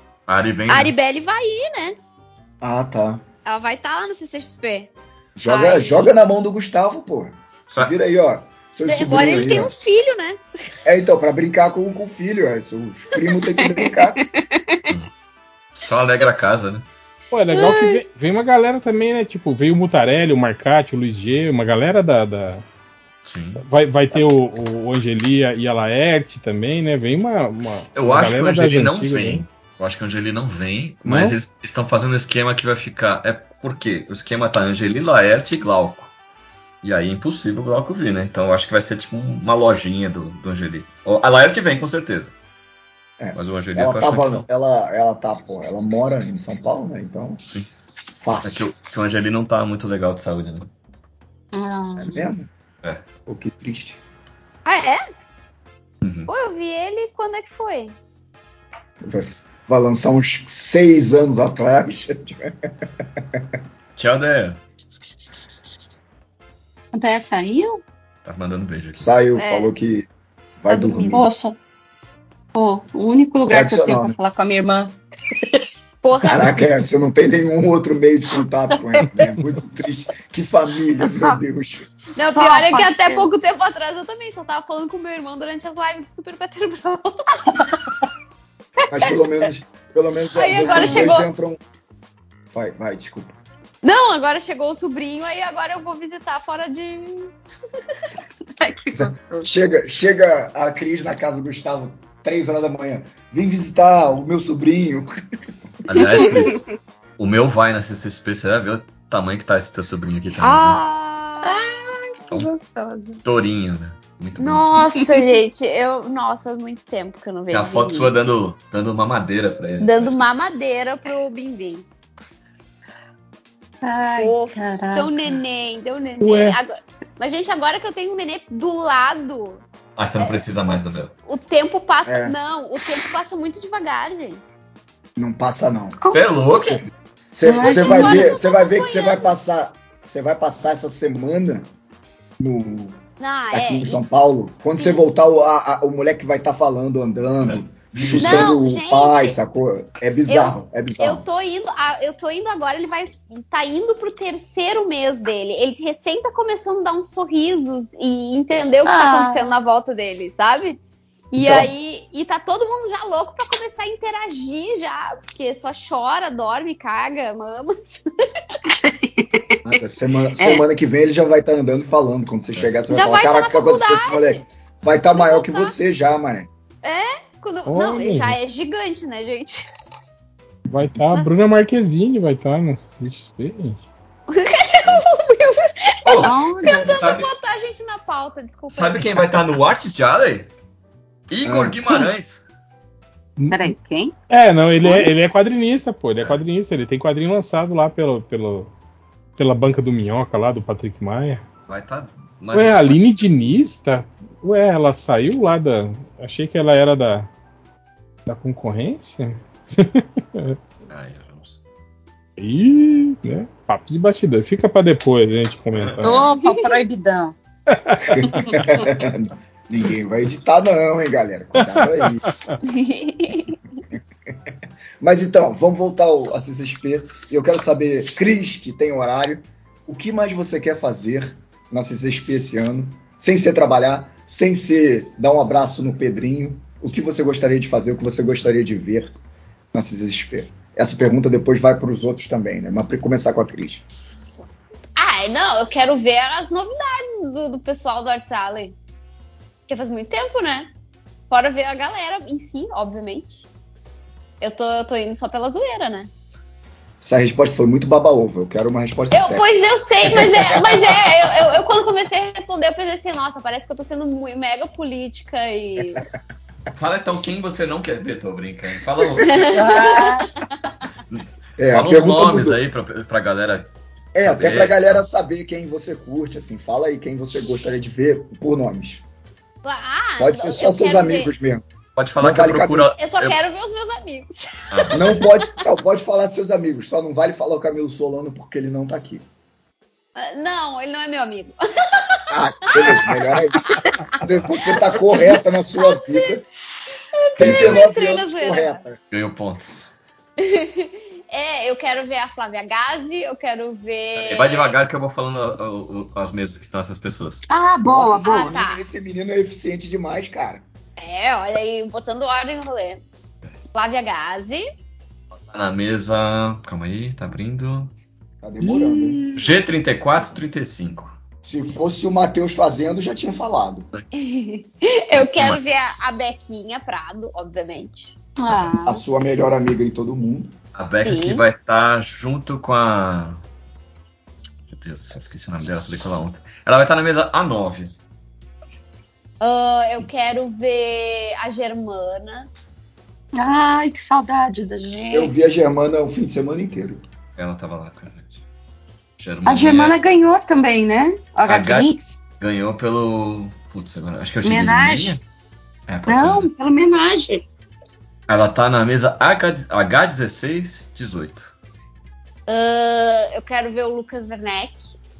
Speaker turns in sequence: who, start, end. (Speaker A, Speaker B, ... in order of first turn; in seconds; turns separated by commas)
Speaker A: 0.3-0.9, Speaker B: 0.7-2.0, Speaker C: 2.6-3.2, Speaker B: 3.4-4.9, Speaker C: 5.3-9.8, Speaker B: 5.5-6.1, Speaker B: 8.8-10.4, Speaker C: 10.8-14.2, Speaker D: 13.5-14.1, Speaker A: 15.8-16.9, Speaker E: 17.3-22.6, Speaker B: 17.5-18.0, Speaker A: 23.2-23.6, Speaker E: 23.6-29.4, Speaker A: 27.9-36.1, Speaker E: 31.0-31.4, Speaker A: 36.8-42.3, Speaker C: 43.2-47.4, Speaker A: 43.3-44.5, Speaker C: 48.2-48.7, Speaker A: 48.4-50.7, Speaker D: 51.5-52.2, Speaker C: 52.0-52.5, Speaker C: 53.2-54.0, Speaker B: 54.6-55.0, Speaker A: 56.0-56.3, Speaker B: 56.3-58.0, Speaker C: 59.0-63.4, Speaker A: 64.0-64.6, Speaker D: 66.9-67.8, Speaker A: 68.2-69.0, Speaker C: 68.9-70.1, Speaker B: 69.3-69.7, Speaker C: 70.6-71.3, Speaker B: 70.7-71.2, Speaker D: 71.1-71.6, Speaker D: 72.5-75.0, Speaker C: 73.5-74.2, Speaker B: 76.0-76.6, Speaker C: 76.2-81.9, Speaker D: 78.8-79.3, Speaker D: 81.0-81.4, Speaker D: 82.0-83.3, Speaker B: 82.2-87.3, Speaker C: 88.9-91.6, Speaker B: 90.3-91.3, Speaker D: 90.6-91.1, Speaker C: 92.5-93.3, Speaker B: 93.8-97.3, Speaker D: 98.6-99.5, Speaker C: 98.9-105.1, Speaker A: 105.8-106.6, Speaker D: 106.0-106.6, Speaker A: 107.2-110.8, Speaker B: 110.6-111.4, Speaker D: 111.4-113.2, Speaker A: 113.2-114.8, Speaker B: 114.4-118.2, Speaker A: 117.5-120.2, Speaker B: 119.8-121.8, Speaker D: 123.8-125.3, Speaker B: 124.1-129.6, Speaker E: 126.2-126.6, Speaker A: 130.0-131.1, Speaker B: 130.2-130.4, Speaker B: 131.3-134.5, Speaker C: 132.0-132.3, Speaker C: 135.2-136.0, Speaker D: 136.0-136.3, Speaker A: 136.1-136.8, Speaker C: 137.3-141.7, Speaker D: 137.4-138.3, Speaker B: 137.6-139.3, Speaker C: 142.4-143.0, Speaker B: 143.2-144.0, Speaker C: 143.5-151.2, Speaker A: 147.4-148.6, Speaker B: 148.1-149.3, Speaker B: 150.2-160.8, Speaker D: 158.8-159.5, Speaker B: 161.3-168.0, Speaker C: 161.4-161.7, Speaker D: 168.8-169.6, Speaker C: 169.6-176.5, Speaker D: 170.4-170.6, Speaker B: 172.9-174.4, Speaker B: 175.1-175.7, Speaker B: 176.8-179.7, Speaker E: 177.7-178.4, Speaker E: 180.7-183.8, Speaker B: 184.3-189.4, Speaker A: 186.0-187.3, Speaker D: 186.2-187.2, Speaker A: 188.7-190.5, Speaker A: 191.3-192.4, Speaker C: 191.4-191.8, Speaker E: 193.4-193.7, Speaker D: 193.5-194.1, Speaker E: 194.3-198.7, Speaker E: 199.4-201.4, Speaker A: 201.7-203.0, Speaker E: 202.5-207.3, Speaker E: 208.2-210.6, Speaker A: 210.9-211.6, Speaker E: 212.4-216.3, Speaker A: 215.8-216.0, Speaker D: 216.0-217.3, Speaker B: 216.4-216.7, Speaker E: 217.7-218.6, Speaker C: 218.1-222.2, Speaker E: 221.6-222.6, Speaker B: 222.6-223.6, Speaker C: 225.0-239.1, Speaker C: 239.7-243.8, Speaker B: 245.0-248.8, Speaker B: 249.7-250.7, Speaker B: 251.3-253.5, Speaker B: 254.4-256.1, Speaker C: 257.0-259.4, Speaker B: 259.1-266.0, Speaker C: 260.0-261.1, Speaker A: 266.7-269.4, Speaker B: 269.1-270.4, Speaker D: 269.5-270.3, Speaker A: 271.1-273.7, Speaker C: 271.6-272.6, Speaker C: 274.1-279.0, Speaker A: 274.2-275.0, Speaker B: 279.6-281.3, Speaker C: 280.2-281.6, Speaker A: 281.9-283.4, Speaker C: 282.2-282.9, Speaker B: 282.9-285.6, Speaker A: 284.7-285.2, Speaker C: 284.9-289.2, Speaker B: 290.1-293.0, Speaker C: 292.3-296.4, Speaker B: 295.3-296.3, Speaker B: 297.1-298.8, Speaker C: 297.4-299.0, Speaker A: 297.4-297.9, Speaker A: 299.1-299.9, Speaker B: 300.4-304.8, Speaker A: 304.1-307.4, Speaker D: 307.5-308.6, Speaker C: 307.9-310.6, Speaker B: 308.2-308.8, Speaker B: 311.0-313.0, Speaker B: 313.7-314.6, Speaker A: 315.5-317.9, Speaker C: 318.4-319.2, Speaker D: 318.6-319.5, Speaker A: 319.3-321.2, Speaker C: 321.4-323.9, Speaker B: 324.1-328.2, Speaker A: 325.1-325.6, Speaker D: 328.4-329.0, Speaker C: 328.8-330.6, Speaker A: 330.7-333.4, Speaker B: 331.0-331.4, Speaker A: 334.7-337.9, Speaker B: 339.4-342.5, Speaker D: 343.3-345.3, Speaker C: 345.1-347.0, Speaker A: 347.4-348.4, Speaker A: 349.2-350.0, Speaker D: 349.4-352.2, Speaker A: 351.4-355.2, Speaker D: 354.4-355.2, Speaker A: 355.9-356.5, Speaker D: 356.1-357.4, Speaker A: 358.3-361.5, Speaker B: 362.5-364.9